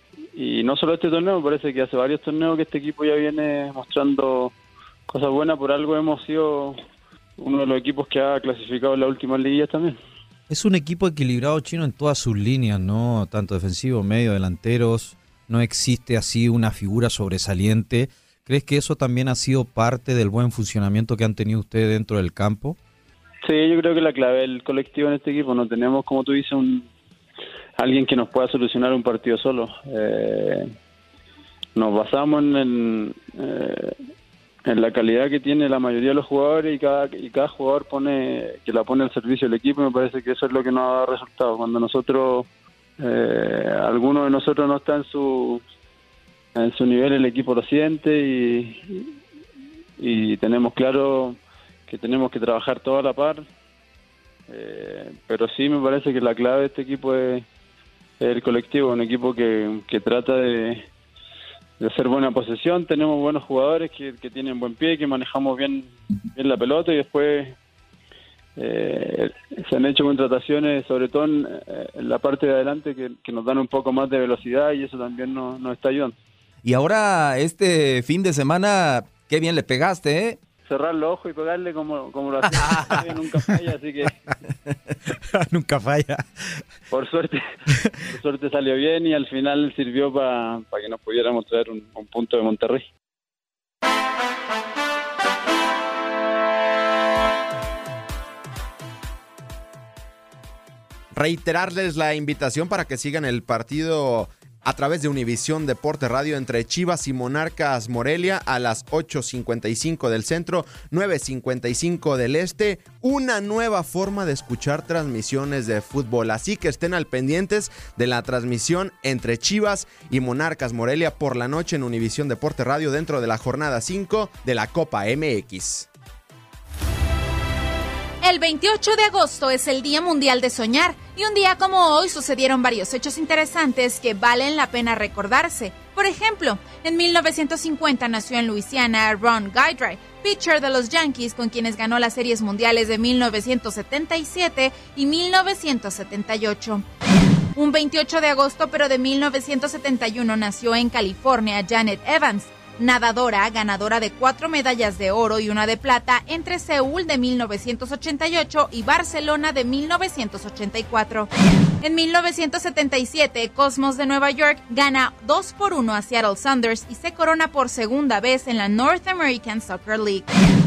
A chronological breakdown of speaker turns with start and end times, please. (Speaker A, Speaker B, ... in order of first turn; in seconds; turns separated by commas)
Speaker A: 0.3-4.5, Speaker A: 5.1-6.8, Speaker A: 7.4-10.0, Speaker B: 10.5-22.8, Speaker A: 23.4-26.9, Speaker A: 27.8-30.7, Speaker A: 31.8-34.0, Speaker A: 34.6-42.5, Speaker A: 43.0-45.6, Speaker A: 46.5-49.1, Speaker A: 50.0-53.4, Speaker A: 54.5-57.4, Speaker A: 58.2-60.8, Speaker A: 61.8-67.5, Speaker A: 68.6-76.1, Speaker C: 76.6-80.4, Speaker A: 80.7-84.1, Speaker B: 85.4-86.2, Speaker A: 86.9-87.4, Speaker A: 88.1-92.8, Speaker D: 101.1-125.9, Speaker E: 128.2-146.8, Speaker E: 147.6-161.3, Speaker E: 161.8-170.3